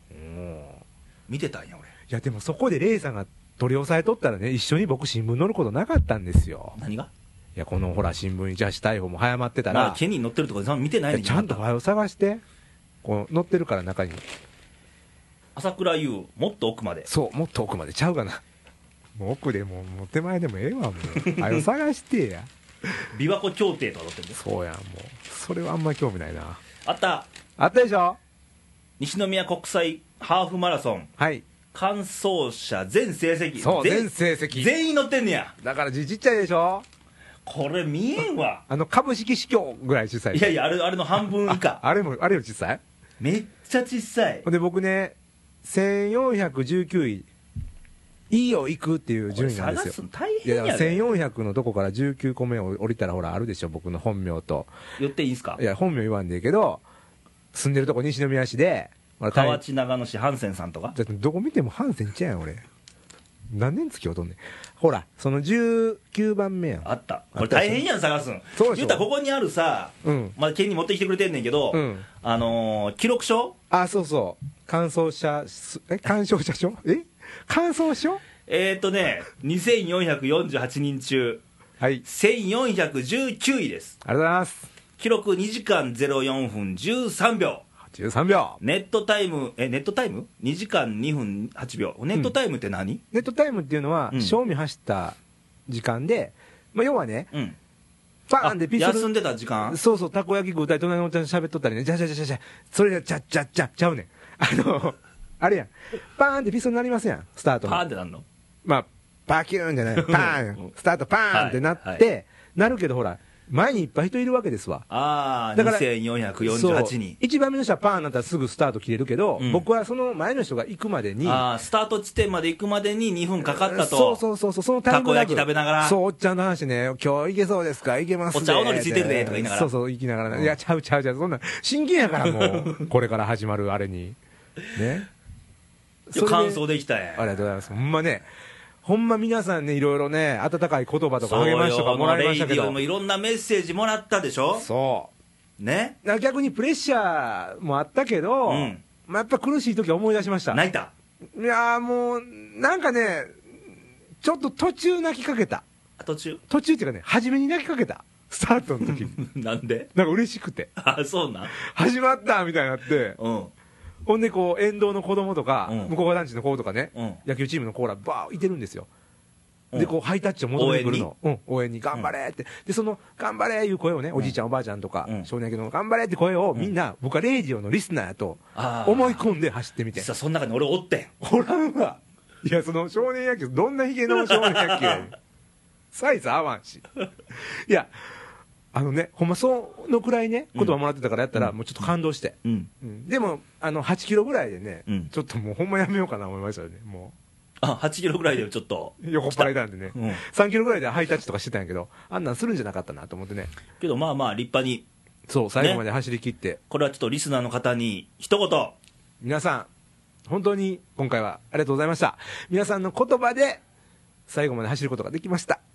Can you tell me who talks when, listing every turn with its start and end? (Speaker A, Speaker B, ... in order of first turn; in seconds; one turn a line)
Speaker A: 0.1-0.8
Speaker B: 1.3-1.9
Speaker A: 2.1-6.8
Speaker B: 6.8-7.1
Speaker A: 7.5-10.0
Speaker B: 9.7-11.6
Speaker A: 11.1-12.4
Speaker A: 13.0-14.2
Speaker B: 15.6-17.1
Speaker A: 17.1-18.4
Speaker A: 19.1-22.5
Speaker B: 21.1-21.6
Speaker B: 23.1-24.4
Speaker A: 24.3-26.6
Speaker B: 26.8-27.3
Speaker A: 27.6-28.2
Speaker B: 29.0-31.1
Speaker A: 31.2-31.4
Speaker B: 31.7-35.5
Speaker A: 33.6-34.7
Speaker A: 35.6-36.8
Speaker B: 37.5-38.6
Speaker A: 38.7-40.5
Speaker B: 40.3-41.8
Speaker A: 41.5-42.8
Speaker B: 43.2-44.4
Speaker A: 44.4-47.3
Speaker A: 48.3-54.7
Speaker B: 49.3-51.0
Speaker B: 55.0-55.6
Speaker A: 55.6-56.8
Speaker A: 57.5-59.6
Speaker B: 59.3-60.9
Speaker A: 60.9-62.6
Speaker A: 63.5-67.8
Speaker B: 66.8-73.5
Speaker A: 68.5-69.0
Speaker A: 70.0-70.3
Speaker A: 71.7-72.0
Speaker A: 73.7-78.2
Speaker B: 78.4-81.4
Speaker B: 82.0-84.0
Speaker A: 84.0-84.7
Speaker B: 85.0-87.6
Speaker A: 87.8-88.6
Speaker B: 88.6-93.0
Speaker A: 93.1-95.2
Speaker B: 94.1-94.4
Speaker A: 95.7-97.3
Speaker A: 98.3-99.1
Speaker B: 98.4-99.8
Speaker A: 99.7-107.8
Speaker B: 107.6-108.2
Speaker A: 108.6-114.8
Speaker B: 109.9-110.7
Speaker B: 111.3-112.0
Speaker B: 114.9-117.2
Speaker A: 115.5-115.8
Speaker A: 116.4-121.4
Speaker B: 119.4-119.6
Speaker B: 121.2-124.2
Speaker A: 123.4-134.2
Speaker B: 124.9-126.0
Speaker B: 128.3-129.7
Speaker B: 130.3-130.5
Speaker B: 132.2-132.8
Speaker A: 134.7-135.1
Speaker A: 136.1-136.6
Speaker B: 136.1-137.5
Speaker A: 137.2-138.3
Speaker A: 138.8-142.8
Speaker B: 141.2-144.7
Speaker A: 144.5-145.1
Speaker B: 145.6-146.0
Speaker A: 146.0-150.6
Speaker B: 148.4-148.8
Speaker B: 150.5-150.9
Speaker A: 151.3-153.3
Speaker A: 154.2-155.6
Speaker B: 156.0-156.4
Speaker A: 156.5-159.2
Speaker B: 158.8-159.9
Speaker A: 159.9-160.7
Speaker B: 160.8-161.5
Speaker A: 161.5-163.2
Speaker B: 163.2-163.5
Speaker A: 164.1-168.9
Speaker B: 165.7-165.9
Speaker B: 166.9-167.2
Speaker A: 169.7-180.1
Speaker B: 170.6-171.1
Speaker B: 178.5-179.2
Speaker B: 179.9-181.2
Speaker A: 181.2-185.1
Speaker B: 184.1-185.1
Speaker A: 185.9-187.9
Speaker A: 188.7-197.1
Speaker B: 192.4-192.7
Speaker B: 197.6-200.2
Speaker A: 199.0-203.5
Speaker B: 203.8-204.8
Speaker A: 205.3-206.6
Speaker B: 205.6-205.8
Speaker B: 206.7-208.8
Speaker A: 209.2-209.7
Speaker A: 210.3-213.6
Speaker A: 214.3-215.6